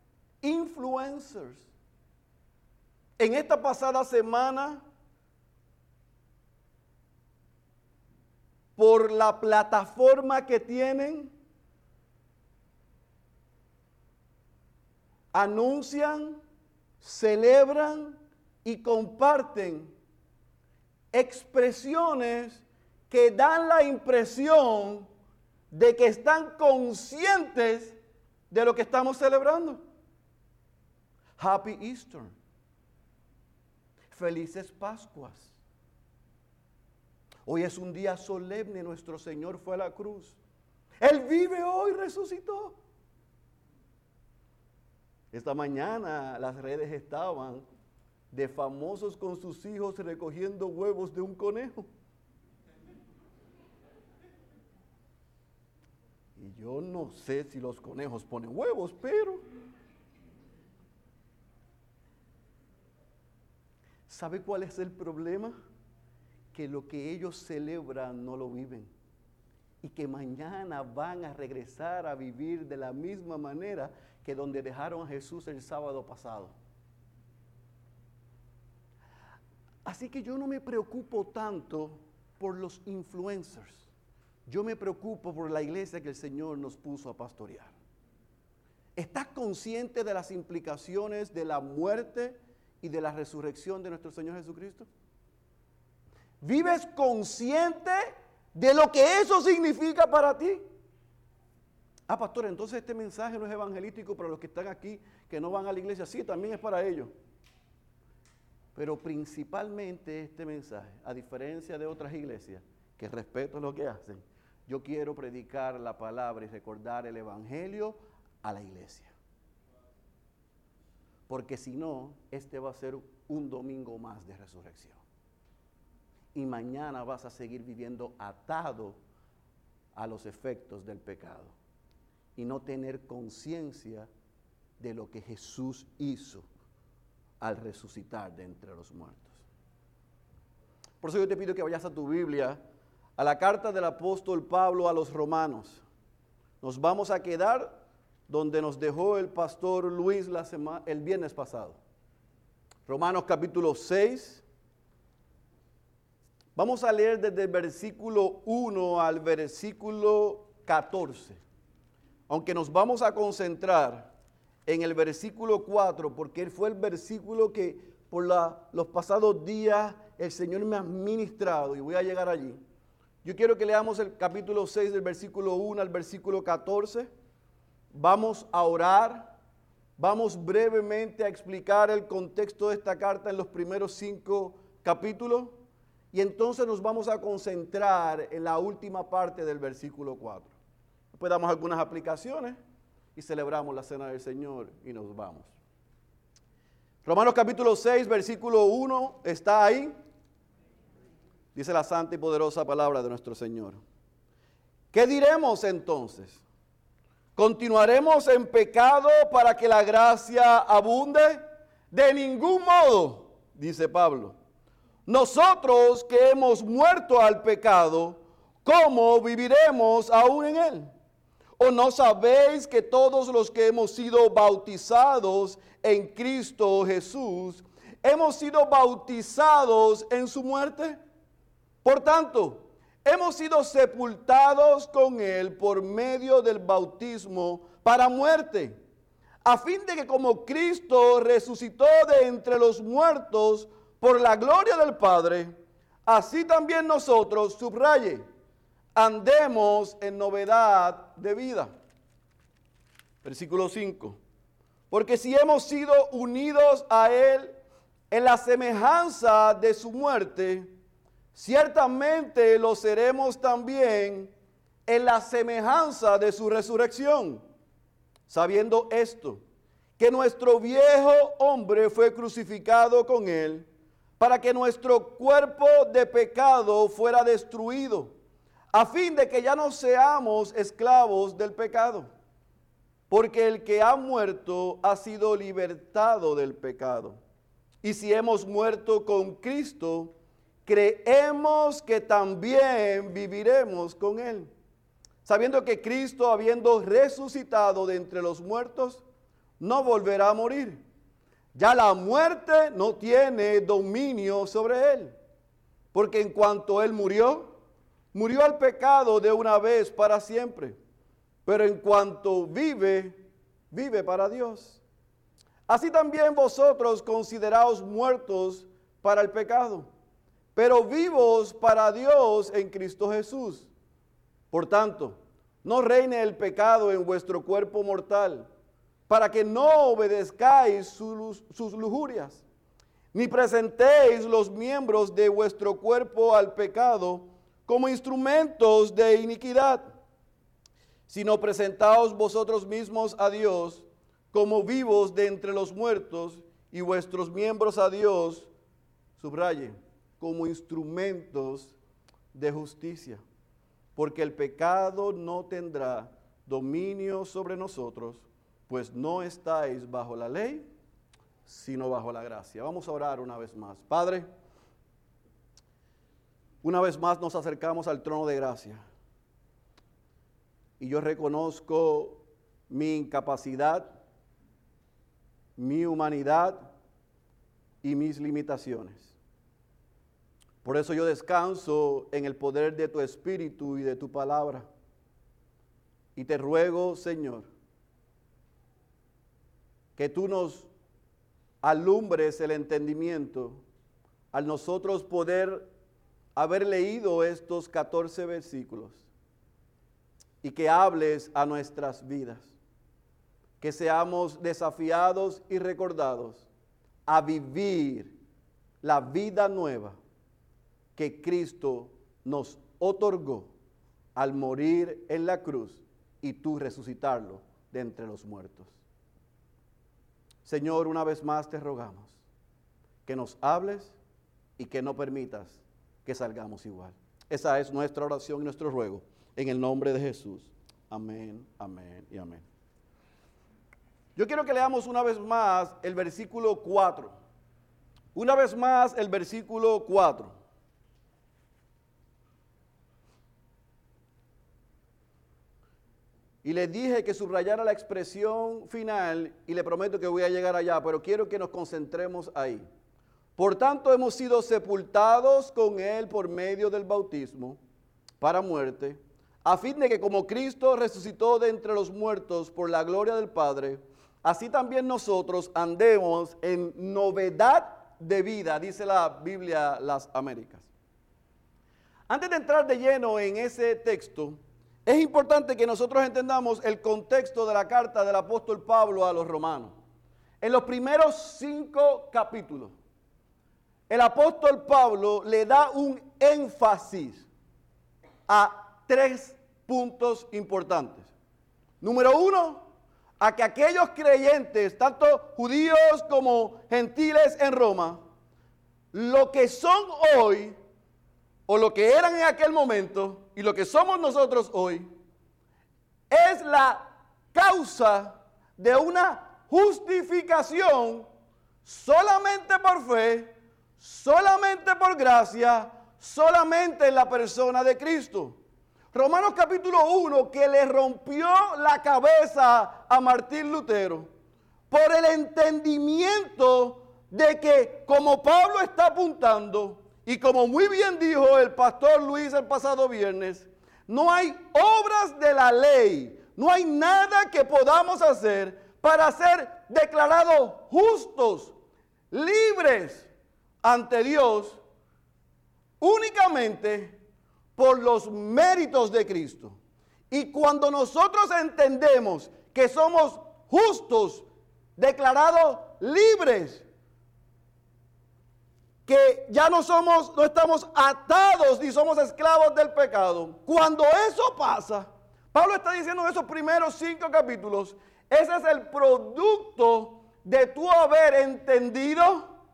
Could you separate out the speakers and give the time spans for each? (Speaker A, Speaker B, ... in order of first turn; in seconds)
Speaker A: 0.4-1.7, 3.2-4.8, 8.8-11.3, 15.3-16.4, 17.0-19.9, 21.1-25.1, 25.7-27.9, 28.5-29.8, 31.4-32.3, 34.1-35.6, 37.4-40.4, 41.0-42.8, 45.3-47.6, 48.3-51.9, 56.4-59.4, 64.1-65.5, 66.5-68.9, 69.8-76.5, 79.8-83.9, 84.5-87.7, 89.0-94.9, 96.4-100.6, 102.1-107.1, 108.7-119.1, 121.3-125.0, 126.3-129.0, 129.9-131.5, 132.3-134.1, 134.8-136.4, 137.4-139.4, 141.0-142.6, 143.2-145.8, 146.6-151.8, 152.9-154.4, 156.5-161.4, 162.3-164.1, 164.7-172.6, 173.2-177.1, 177.9-179.3, 180.0-185.6, 186.1-190.5, 191.1-192.6, 193.2-195.5, 197.0-199.9, 201.5-203.8, 204.9-206.4, 207.3-214.3, 215.1-220.9, 221.6-231.0, 231.8-238.8, 239.4-245.5, 246.1-248.2, 248.9-251.7, 253.2-254.2, 254.9-257.5, 258.1-260.7, 261.3-264.3, 264.9-267.4, 268.3-269.4, 270.0-273.7, 274.2-278.1, 278.7-282.1, 283.1-287.2, 287.8-290.1, 290.6-294.5, 295.2-299.0, 299.6-300.8, 301.5-305.1, 305.9-307.5, 308.1-310.8, 311.4-313.2, 313.7-314.8, 315.7-319.9, 320.5-323.7, 324.5-328.5, 329.1-332.4, 333.1-339.9, 341.1-348.5, 349.2-351.8, 352.3-353.2, 353.9-360.7, 361.4-364.2, 366.6-368.8, 370.8-374.0, 375.6-376.7, 377.8-379.1, 380.6-384.7, 386.1-387.5, 389.9-390.7, 391.6-393.6, 394.3-395.7, 396.4-399.1, 400.4-402.5, 403.6-406.5, 407.1-408.1, 408.8-410.0, 410.9-413.5, 414.1-418.8, 420.4-422.2, 423.1-424.0, 424.6-432.4, 434.1-437.1, 438.1-440.3, 446.4-452.6, 453.4-457.6, 458.2-470.7, 472.1-479.7, 480.4-482.7, 483.9-487.3, 488.3-491.1, 491.8-492.6, 493.2-498.0, 498.9-500.5, 501.5-504.9, 506.1-511.1, 511.6-518.4, 518.9-524.1, 524.7-541.5, 542.1-543.1, 543.6-544.6, 545.8-547.0, 547.5-549.5, 550.1-554.2, 554.8-556.6, 558.9-572.3